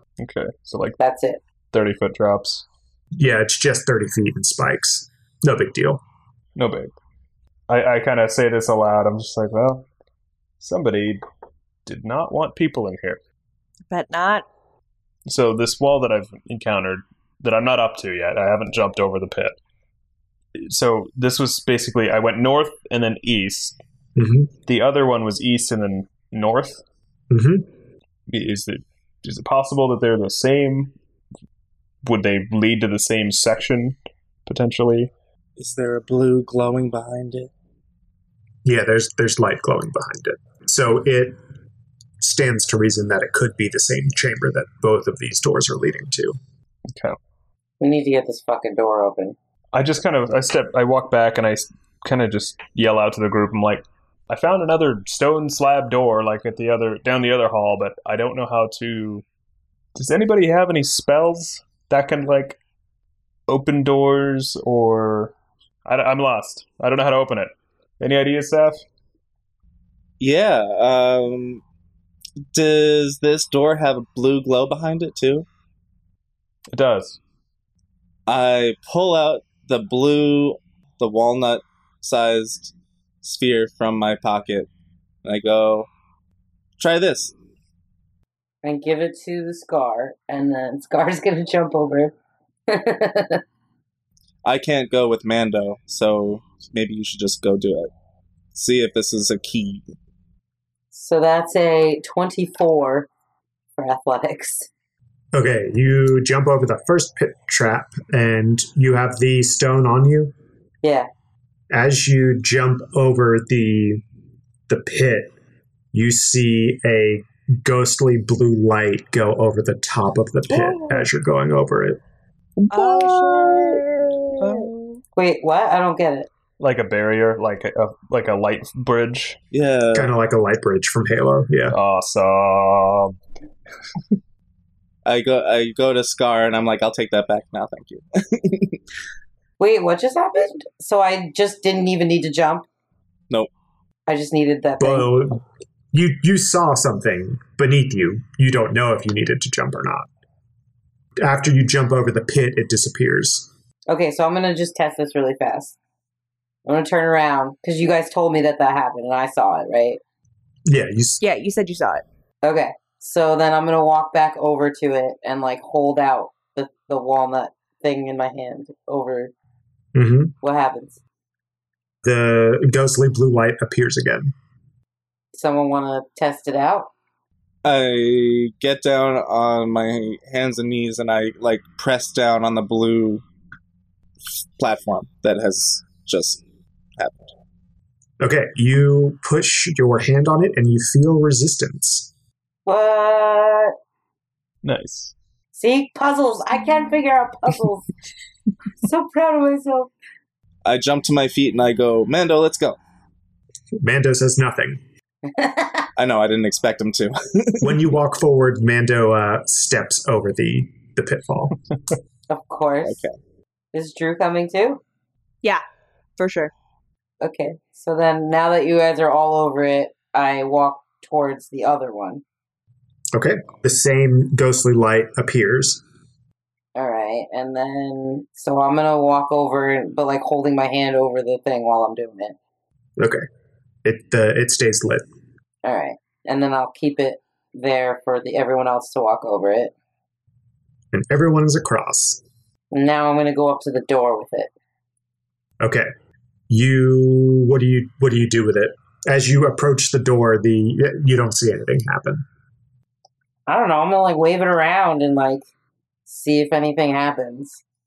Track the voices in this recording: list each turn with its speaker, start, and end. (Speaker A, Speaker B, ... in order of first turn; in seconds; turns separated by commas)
Speaker A: 0.2-1.0, Speaker B: 1.0-1.4, Speaker A: 1.7-2.6, Speaker C: 3.1-6.0, Speaker A: 6.5-6.9, Speaker A: 7.7-9.9, Speaker A: 10.6-11.2, Speaker A: 11.8-13.2, Speaker D: 13.9-14.5, Speaker A: 15.2-19.5, Speaker A: 20.6-23.8, Speaker C: 24.1-24.5, Speaker A: 24.6-26.8, Speaker C: 27.3-27.6, Speaker A: 28.3-30.9, Speaker A: 32.0-35.1, Speaker E: 35.6-37.5, Speaker C: 38.6-41.4, Speaker C: 42.2-46.4, Speaker A: 46.9-47.2, Speaker B: 47.8-49.4, Speaker A: 49.7-59.2, Speaker A: 59.9-62.6, Speaker A: 63.5-65.3, Speaker A: 65.8-68.8, Speaker E: 70.2-71.6, Speaker E: 72.5-75.5, Speaker A: 76.7-77.2, Speaker E: 78.3-84.7, Speaker E: 85.2-85.9, Speaker E: 86.8-87.3, Speaker B: 88.6-92.1, Speaker B: 92.7-93.4, Speaker E: 94.4-97.9, Speaker E: 98.5-99.8, Speaker B: 100.9-103.1, Speaker B: 103.8-104.7, Speaker C: 105.3-110.3, Speaker B: 110.8-111.1, Speaker C: 111.7-114.0, Speaker C: 114.7-115.3, Speaker C: 115.9-122.0, Speaker D: 122.7-123.8, Speaker E: 123.1-123.4, Speaker A: 124.4-125.0, Speaker B: 125.1-126.3, Speaker A: 126.6-129.4, Speaker E: 129.5-130.1, Speaker C: 129.9-131.8, Speaker A: 131.7-133.2, Speaker E: 135.1-138.8, Speaker B: 139.6-142.7, Speaker B: 144.1-145.1, Speaker C: 144.8-150.1, Speaker C: 151.2-153.5, Speaker B: 153.9-155.8, Speaker B: 156.7-160.0, Speaker C: 160.7-161.2, Speaker D: 161.2-162.0, Speaker B: 162.4-169.3, Speaker C: 169.9-170.3, Speaker B: 170.4-171.0, Speaker C: 172.0-174.3, Speaker B: 175.3-176.9, Speaker E: 177.6-183.2, Speaker E: 184.6-186.4, Speaker E: 187.0-187.3, Speaker C: 188.2-192.1, Speaker B: 192.7-193.7, Speaker A: 194.6-195.1, Speaker B: 195.5-197.8, Speaker B: 198.8-199.9, Speaker E: 200.6-202.8, Speaker C: 203.8-204.8, Speaker B: 205.2-205.9, Speaker E: 206.0-207.8, Speaker C: 207.6-211.6, Speaker B: 212.3-213.0, Speaker E: 212.8-213.1, Speaker B: 213.7-214.8, Speaker D: 216.2-216.5, Speaker B: 217.2-222.2, Speaker C: 223.1-225.8, Speaker B: 226.8-232.4, Speaker C: 233.0-233.2, Speaker C: 233.8-235.1, Speaker B: 235.6-239.7, Speaker C: 240.9-242.2, Speaker B: 242.7-244.5, Speaker C: 245.6-245.9, Speaker C: 246.5-252.2, Speaker B: 253.5-255.4, Speaker B: 256.1-257.6